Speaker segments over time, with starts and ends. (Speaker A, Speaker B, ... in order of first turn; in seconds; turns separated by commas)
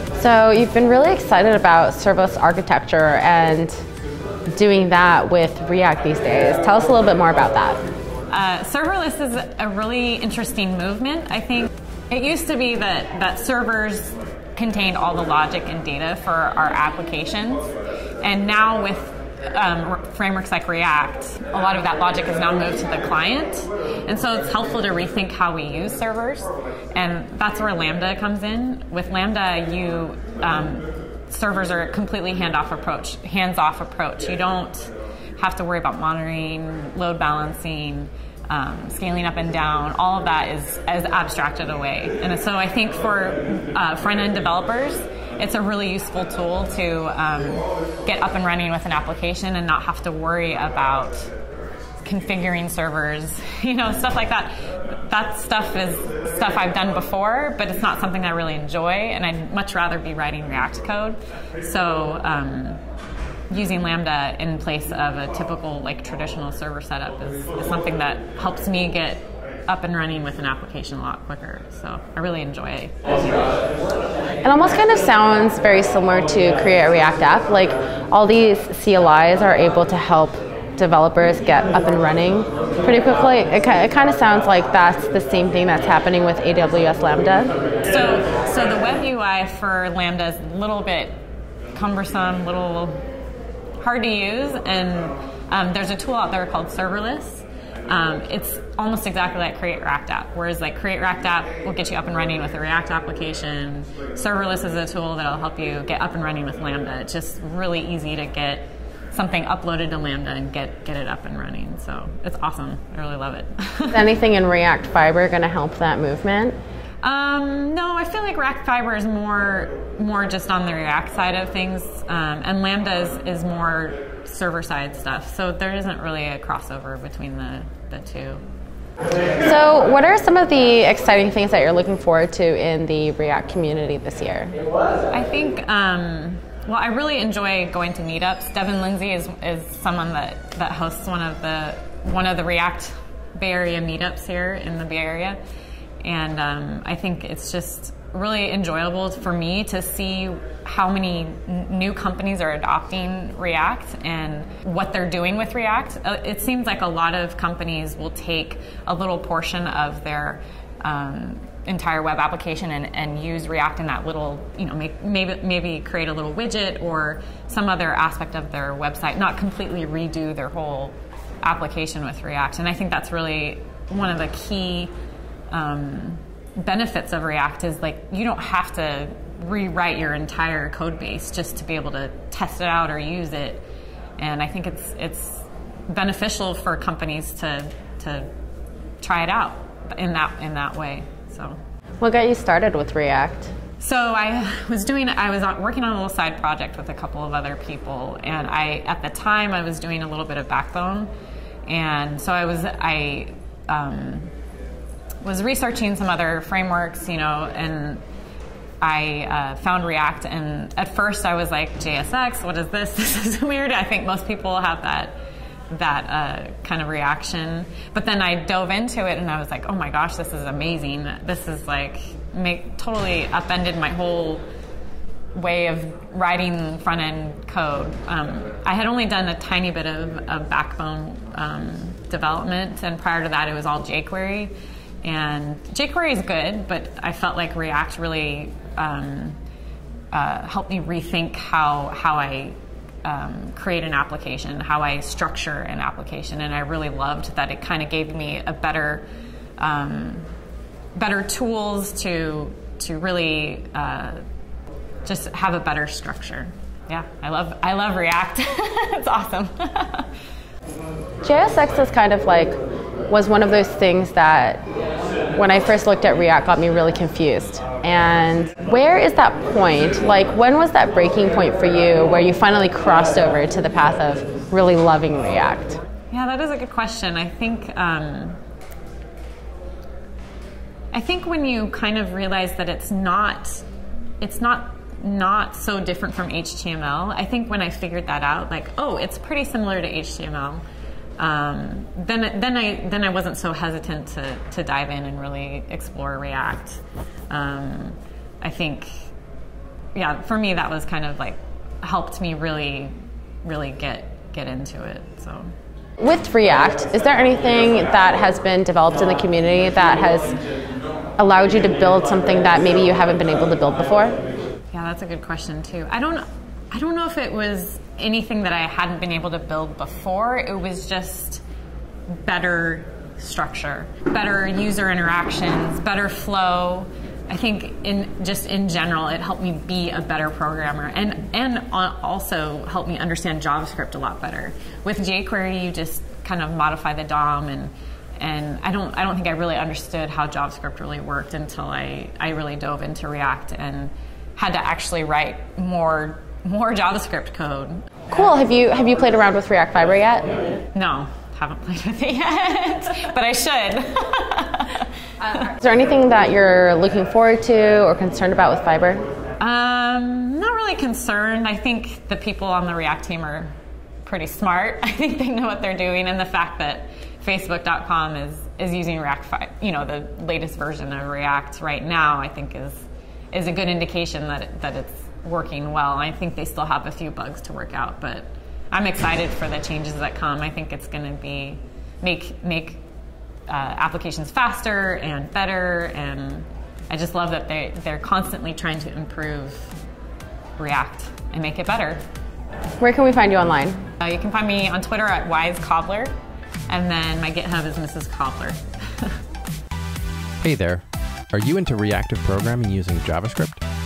Speaker A: 0.2-3.8, Speaker A: 4.5-7.8, Speaker B: 8.3-17.7, Speaker B: 18.2-51.3, Speaker B: 52.0-62.8, Speaker B: 63.5-73.0, Speaker A: 74.4-87.5, Speaker B: 87.9-91.2, Speaker B: 91.7-93.0, Speaker B: 93.8-114.0, Speaker A: 113.9-116.6, Speaker B: 117.0-128.4, Speaker A: 129.4-134.6, Speaker B: 135.1-145.4, Speaker B: 146.0-174.9, Speaker B: 175.5-183.6, Speaker B: 184.2-188.3, Speaker B: 189.0-191.6, Speaker A: 192.0-193.5, Speaker B: 193.8-201.1, Speaker B: 201.7-204.3, Speaker B: 205.2-208.0, Speaker B: 208.8-215.1, Speaker B: 215.7-224.4, Speaker B: 225.3-234.5, Speaker B: 235.0-239.4, Speaker B: 240.1-249.1, Speaker B: 249.6-250.3, Speaker B: 250.9-254.2, Speaker B: 255.1-260.1, Speaker A: 261.2-262.6, Speaker A: 263.1-264.6, Speaker A: 265.4-275.8, Speaker B: 276.1-278.4, Speaker B: 280.9-283.6, Speaker B: 284.2-290.6, Speaker B: 291.2-298.9, Speaker B: 299.9-302.9, Speaker B: 303.4-305.5, Speaker A: 306.0-310.4, Speaker A: 311.2-314.2, Speaker B: 314.7-321.4, Speaker B: 322.1-348.0, Speaker A: 348.1-350.3, Speaker B: 350.7-355.5, Speaker A: 355.6-359.0, Speaker B: 359.4-382.8, Speaker B: 383.5-389.7, Speaker B: 390.6-392.0, Speaker A: 392.8-393.8, Speaker B: 394.0-396.1, Speaker B: 396.7-399.1, Speaker C: 400.4-403.6